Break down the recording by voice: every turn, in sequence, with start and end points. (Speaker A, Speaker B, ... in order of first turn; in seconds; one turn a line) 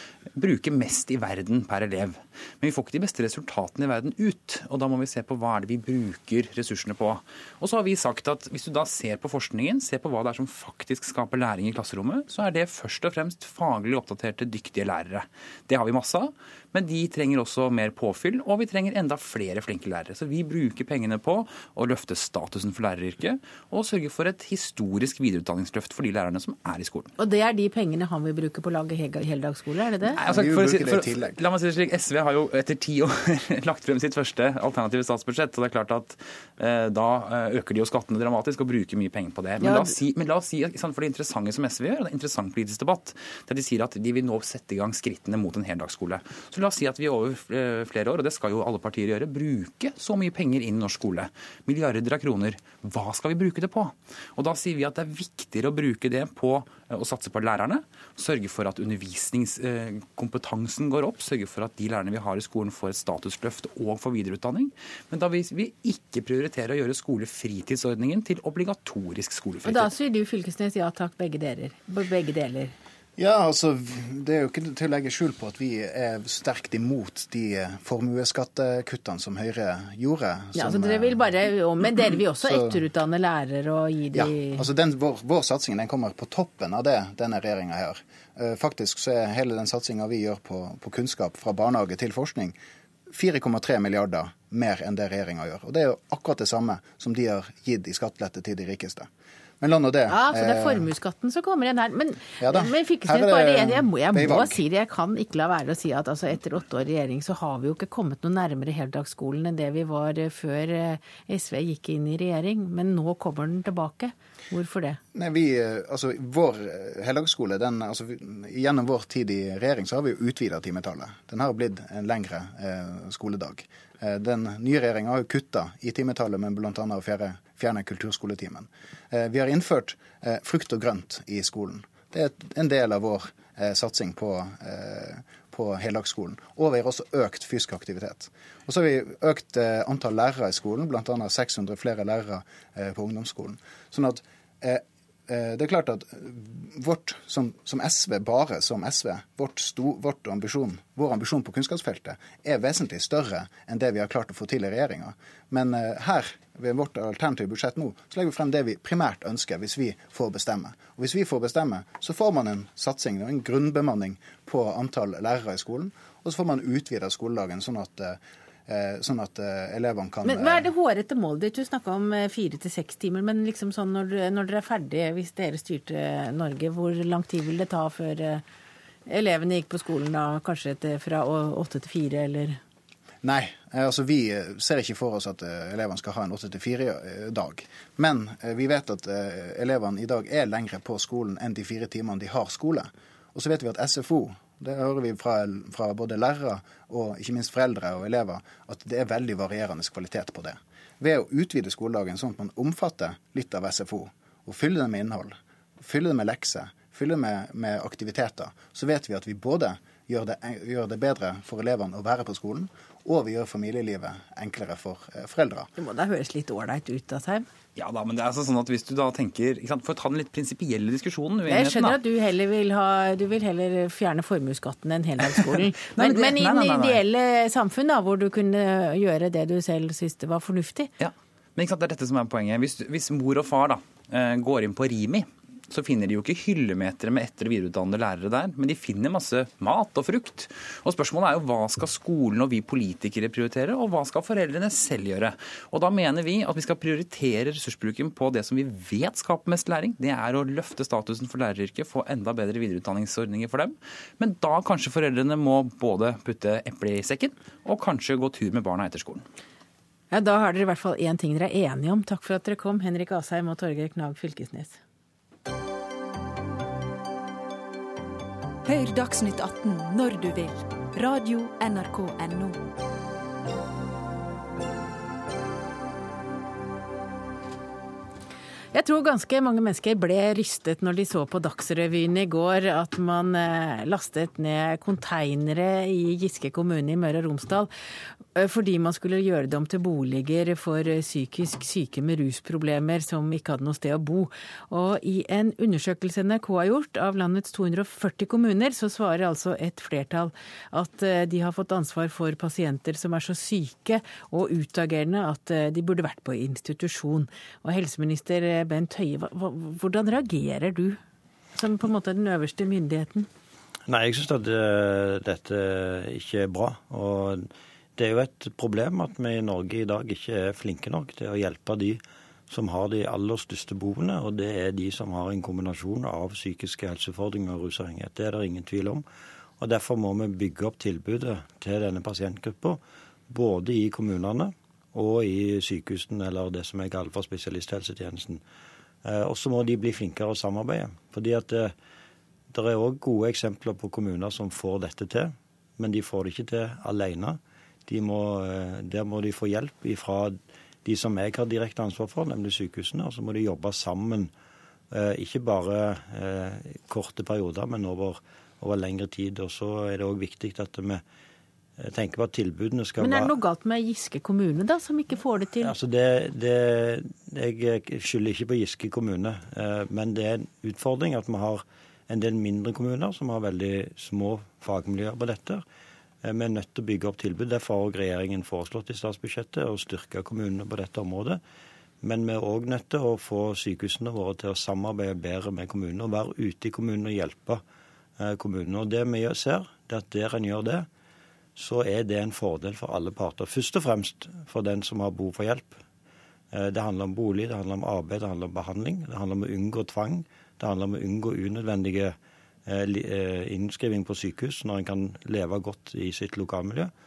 Speaker A: 0.3-27.1
Speaker B: 27.2-30.2
Speaker A: 30.2-69.9
Speaker C: 30.3-31.4
Speaker B: 39.6-39.9
Speaker B: 69.6-72.7
Speaker C: 73.2-81.3
Speaker B: 80.5-84.7
Speaker C: 82.2-82.8
Speaker C: 84.1-92.5
Speaker C: 93.1-99.1
Speaker C: 99.6-100.9
Speaker B: 100.1-115.0
Speaker C: 102.4-104.6
Speaker C: 115.1-170.7
Speaker B: 170.2-178.4
Speaker B: 179.1-182.6
Speaker C: 183.2-215.7
Speaker B: 215.8-217.4
Speaker A: 217.8-221.9
Speaker B: 221.5-230.9
Speaker A: 225.2-227.0
Speaker A: 231.0-259.2
Speaker B: 260.1-264.8
Speaker D: 268.6-272.6
Speaker B: 278.7-287.7
Speaker B: 288.3-311.0
Speaker B: 311.6-313.3
Speaker E: 313.9-329.0
Speaker E: 329.6-338.4
Speaker E: 339.0-341.7
Speaker E: 342.5-354.3
Speaker E: 354.9-361.0
Speaker E: 361.8-363.3
Speaker B: 363.0-365.7
Speaker E: 365.6-375.6
Speaker E: 376.2-381.4
Speaker E: 382.0-387.6
Speaker E: 388.2-390.9
Speaker E: 391.6-395.8
Speaker E: 396.5-406.9